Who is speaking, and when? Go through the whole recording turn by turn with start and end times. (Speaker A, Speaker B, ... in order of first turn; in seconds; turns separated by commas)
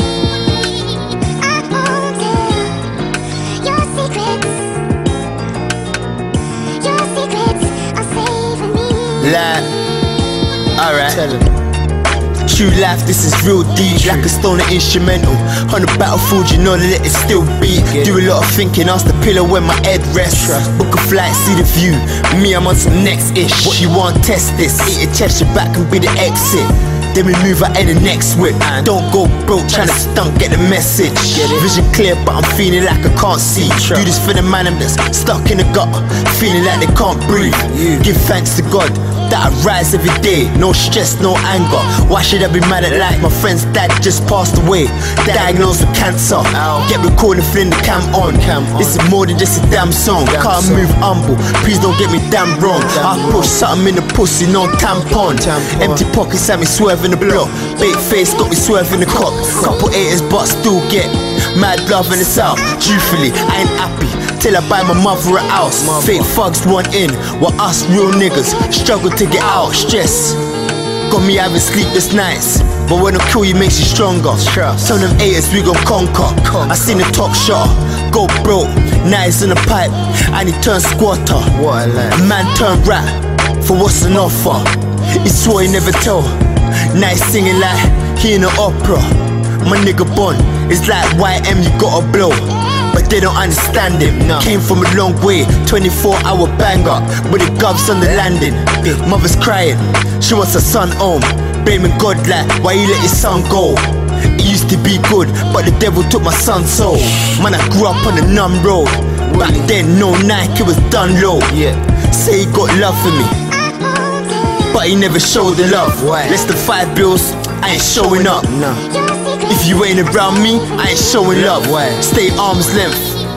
Speaker A: 1.7-2.7, Speaker A: 3.6-4.7, Speaker A: 6.7-9.1, Speaker B: 9.2-9.7, Speaker B: 10.8-11.3, Speaker C: 11.1-11.5, Speaker B: 12.4-70.4, Speaker C: 13.8-14.3, Speaker C: 17.9-18.2, Speaker C: 20.3-20.7, Speaker C: 23.6-23.9, Speaker C: 29.7-30.0, Speaker C: 31.3-31.7, Speaker C: 33.5-34.1, Speaker C: 37.3-38.1, Speaker C: 45.2-45.7, Speaker C: 46.5-46.9, Speaker C: 48.1-49.0, Speaker C: 50.3-50.9, Speaker C: 52.7-53.6, Speaker C: 55.2-56.0, Speaker C: 57.2-57.5, Speaker C: 59.2-59.8, Speaker C: 65.5-66.3, Speaker B: 71.1-81.6, Speaker C: 74.4-75.0, Speaker C: 76.4-77.0, Speaker C: 81.5-82.2, Speaker B: 82.1-113.4, Speaker C: 94.1-94.5, Speaker C: 109.2-109.7, Speaker C: 111.5-111.8, Speaker B: 114.6-118.5, Speaker C: 115.7-116.5, Speaker C: 117.8-118.9, Speaker B: 119.4-123.2, Speaker C: 121.3-122.1